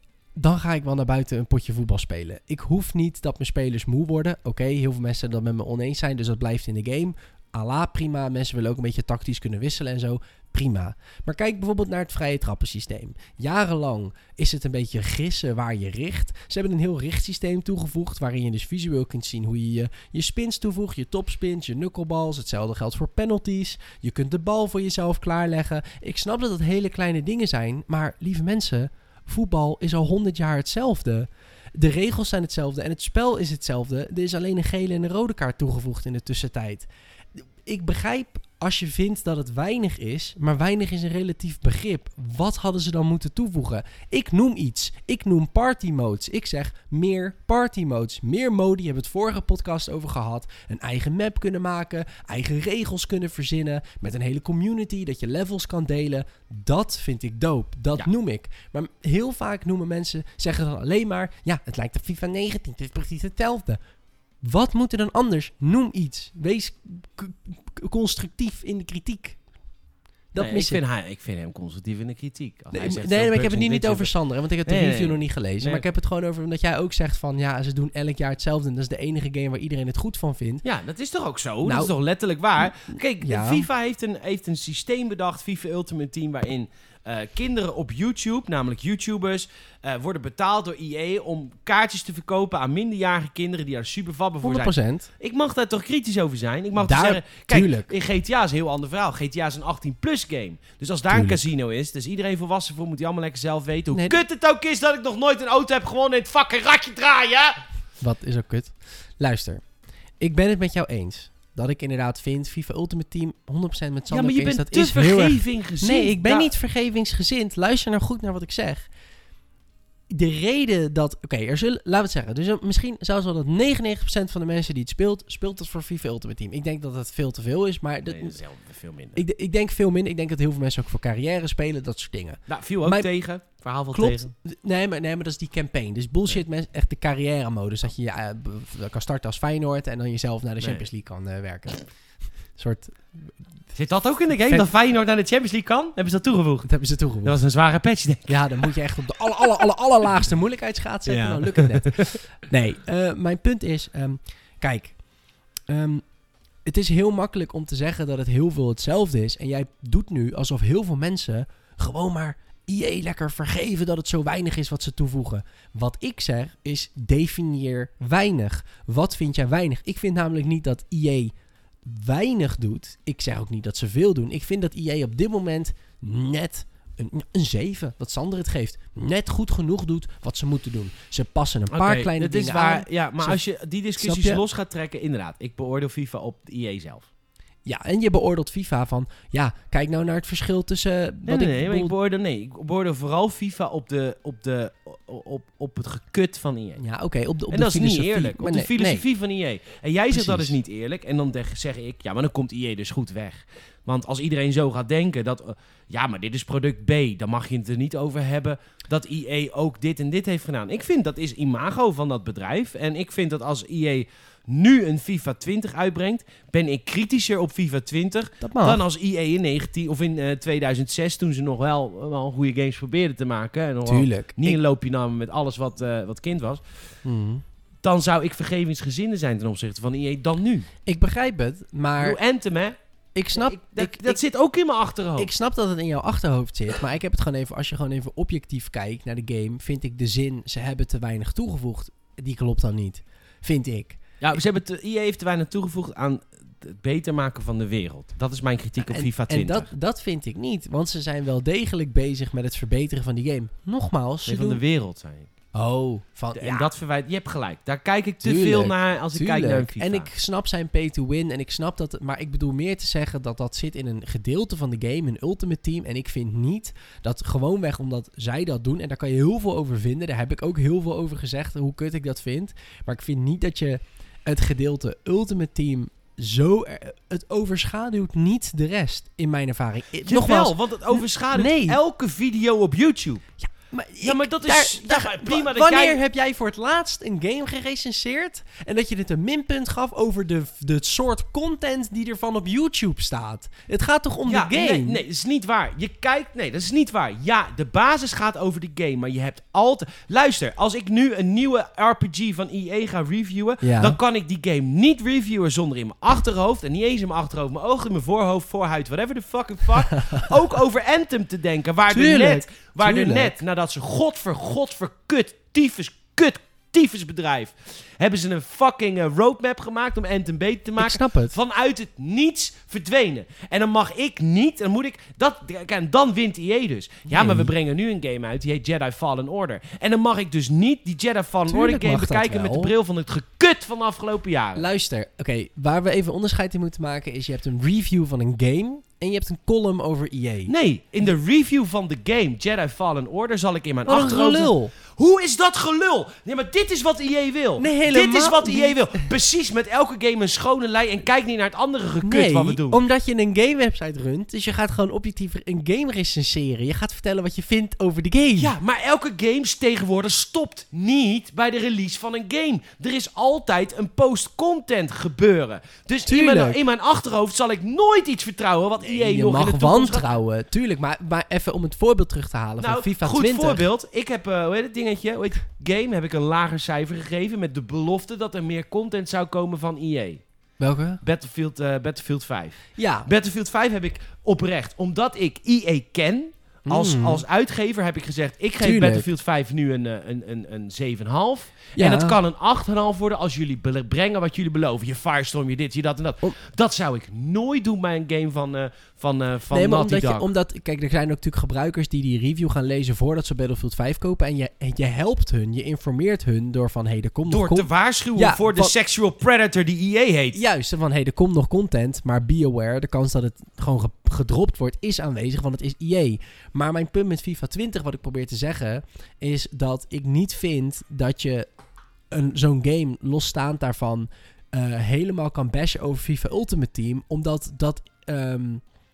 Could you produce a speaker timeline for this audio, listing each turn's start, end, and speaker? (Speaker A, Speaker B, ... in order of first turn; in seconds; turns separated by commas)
Speaker A: 0.3-63.8, Speaker A: 64.4-69.4, Speaker A: 70.3-70.8, Speaker B: 70.3-74.1, Speaker A: 72.7-80.6, Speaker B: 74.6-75.8, Speaker B: 80.6-107.6, Speaker A: 81.6-81.9, Speaker A: 82.8-83.7, Speaker A: 94.4-95.1, Speaker A: 96.8-97.9, Speaker A: 101.1-101.4, Speaker A: 103.9-104.2, Speaker A: 108.0-109.6, Speaker A: 110.2-118.9, Speaker B: 114.1-116.5, Speaker A: 120.1-128.4, Speaker B: 128.1-129.2, Speaker A: 129.1-133.1, Speaker B: 132.5-134.3, Speaker A: 133.9-141.9, Speaker B: 140.6-140.8, Speaker A: 142.5-143.3, Speaker B: 143.7-148.8, Speaker A: 146.6-147.4, Speaker A: 148.3-155.0, Speaker B: 151.1-152.2, Speaker A: 155.7-156.0, Speaker A: 156.6-171.3, Speaker A: 171.8-183.4, Speaker B: 181.7-187.1, Speaker A: 184.0-184.4, Speaker A: 187.6-191.9, Speaker B: 191.3-196.8, Speaker A: 196.8-199.0, Speaker B: 197.5-226.9, Speaker A: 200.1-200.6, Speaker A: 218.4-218.8, Speaker A: 223.8-224.6, Speaker A: 227.0-227.4, Speaker B: 227.8-230.7, Speaker A: 230.8-232.2, Speaker B: 232.0-232.8, Speaker A: 233.1-234.2, Speaker B: 233.3-235.3, Speaker A: 235.2-244.0, Speaker B: 244.2-249.7, Speaker A: 248.8-254.6, Speaker B: 254.2-255.3, Speaker A: 255.5-256.7, Speaker B: 256.3-260.1, Speaker A: 258.2-281.8, Speaker B: 280.0-283.2, Speaker A: 283.4-295.0, Speaker B: 284.0-286.0, Speaker B: 294.3-334.6, Speaker A: 303.6-304.0, Speaker A: 311.9-313.4, Speaker A: 320.8-321.4, Speaker A: 327.1-327.5, Speaker A: 331.5-332.7, Speaker A: 334.6-340.5, Speaker B: 340.5-352.8, Speaker A: 343.9-344.7, Speaker A: 347.6-349.1, Speaker A: 352.0-358.5, Speaker B: 358.4-370.1, Speaker A: 366.1-366.6, Speaker A: 368.8-373.6, Speaker B: 372.6-380.2, Speaker A: 380.6-381.0, Speaker B: 381.0-400.3, Speaker A: 382.8-383.1, Speaker A: 386.7-387.2, Speaker A: 388.6-389.1, Speaker A: 391.8-392.2, Speaker A: 399.5-408.7, Speaker B: 407.3-410.4, Speaker A: 410.3-421.5, Speaker A: 422.1-428.6